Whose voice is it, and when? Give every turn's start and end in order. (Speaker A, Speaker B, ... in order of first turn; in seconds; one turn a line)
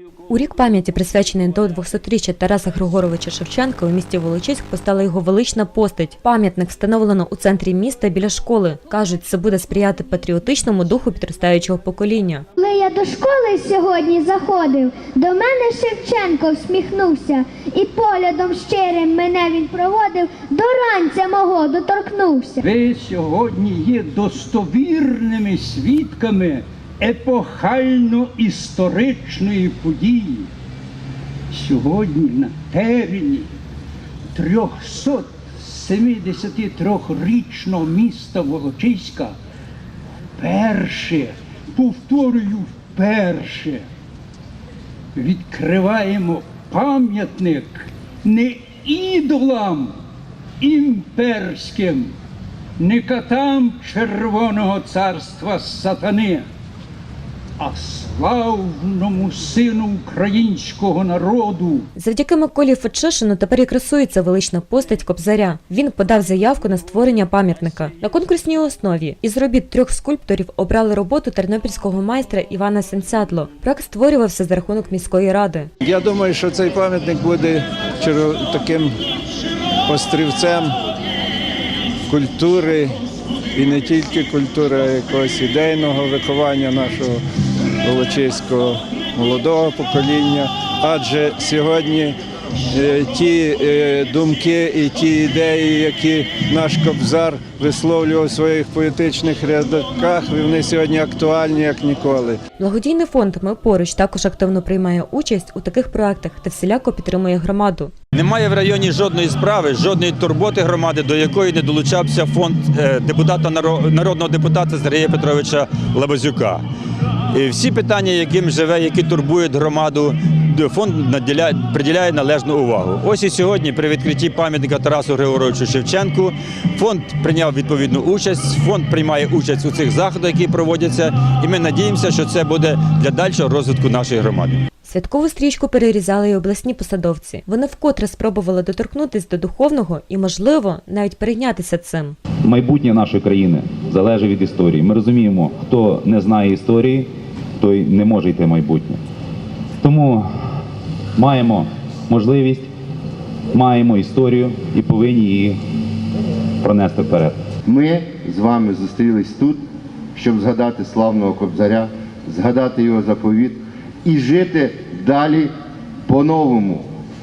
Speaker A: 0.3-12.4
Speaker B: 12.6-22.6
Speaker C: 22.6-30.5
Speaker C: 31.5-33.5
Speaker C: 34.3-39.4
Speaker C: 40.4-43.8
Speaker C: 45.1-49.9
Speaker C: 50.6-52.1
Speaker C: 52.8-56.4
Speaker C: 57.6-61.9
Speaker A: 62.0-75.7
Speaker D: 75.8-78.9
Speaker D: 79.9-80.7
Speaker D: 82.1-82.9
Speaker D: 83.5-87.2
Speaker D: 87.8-92.2
Speaker D: 92.7-102.4
Speaker A: 102.6-107.9
Speaker E: 108.1-116.6
Speaker E: 117.3-134.6
Speaker A: 134.8-142.2
Speaker F: 142.4-149.0
Speaker F: 149.8-150.3
Speaker F: 151.2-152.7
Speaker F: 153.5-155.6
Speaker F: 156.6-157.4
Speaker G: 157.7-159.6
Speaker G: 160.1-165.5
Speaker G: 166.1-166.9